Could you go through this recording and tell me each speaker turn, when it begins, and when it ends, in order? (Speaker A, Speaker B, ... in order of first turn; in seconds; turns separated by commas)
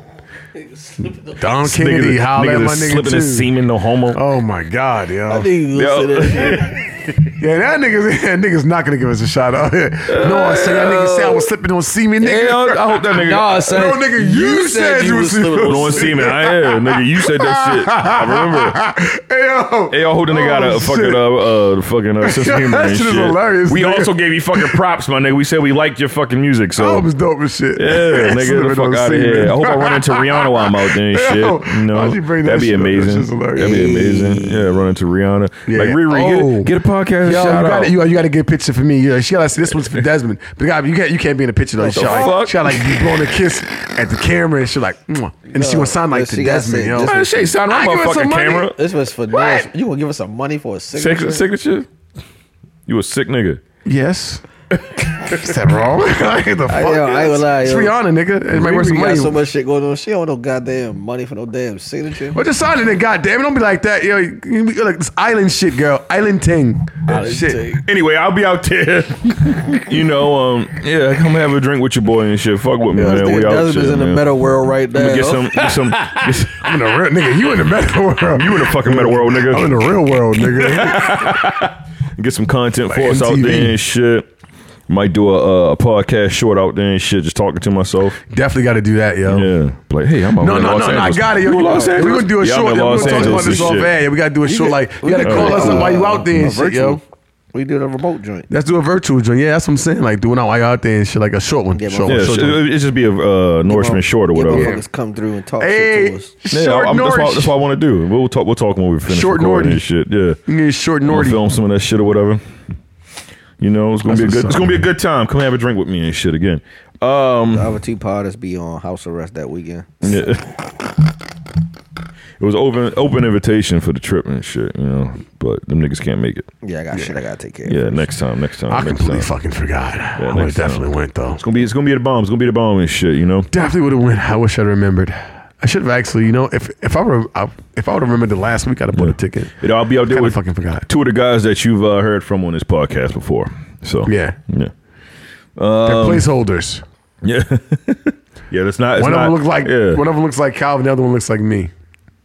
Speaker A: 0.9-1.3, Speaker B: 1.3-3.5, Speaker C: 1.6-4.2, Speaker B: 4.1-5.5, Speaker A: 5.3-6.8, Speaker C: 5.7-7.1, Speaker B: 7.4-21.2, Speaker C: 10.1-11.4, Speaker C: 12.2-13.9, Speaker A: 13.2-16.1, Speaker C: 15.6-18.8, Speaker C: 19.9-27.1, Speaker B: 22.2-24.8, Speaker B: 26.8-33.8, Speaker C: 27.8-37.9, Speaker A: 33.5-34.9, Speaker B: 35.7-36.7, Speaker B: 37.2-48.7, Speaker A: 41.8-42.4, Speaker C: 41.9-43.0, Speaker A: 45.5-47.3, Speaker C: 47.0-48.8, Speaker A: 48.7-51.5, Speaker C: 51.0-51.9, Speaker C: 52.9-53.6, Speaker B: 53.8-54.4, Speaker B: 55.2-59.4, Speaker A: 56.7-57.9, Speaker A: 58.5-62.4, Speaker B: 62.3-67.6, Speaker A: 67.1-67.8, Speaker C: 67.8-74.2, Speaker A: 73.0-76.2, Speaker C: 74.9-76.6, Speaker B: 76.6-81.4, Speaker C: 78.2-79.8, Speaker C: 80.5-84.3, Speaker B: 82.9-83.8, Speaker C: 84.9-88.2, Speaker B: 88.3-89.5, Speaker C: 89.3-93.9, Speaker B: 90.4-97.0, Speaker A: 91.7-92.2, Speaker A: 93.0-93.8, Speaker A: 94.4-97.0, Speaker C: 95.2-95.9, Speaker A: 97.5-98.5, Speaker B: 98.5-102.6, Speaker A: 101.7-102.5, Speaker C: 102.0-104.8, Speaker A: 103.7-106.3, Speaker B: 104.5-104.8, Speaker B: 105.6-107.5, Speaker C: 106.5-110.4, Speaker B: 109.0-109.8, Speaker B: 110.5-111.4, Speaker C: 111.0-112.4, Speaker C: 113.6-117.7, Speaker B: 114.0-114.8, Speaker A: 117.5-120.2, Speaker C: 120.0-120.6, Speaker C: 122.4-126.5, Speaker A: 126.6-128.0, Speaker C: 127.7-129.3, Speaker B: 128.7-131.4, Speaker C: 130.2-133.5, Speaker B: 133.5-139.6, Speaker C: 138.9-144.7, Speaker B: 140.1-140.9, Speaker B: 144.0-144.4, Speaker C: 145.6-146.3, Speaker B: 145.8-146.8, Speaker C: 147.2-150.0, Speaker B: 148.9-151.7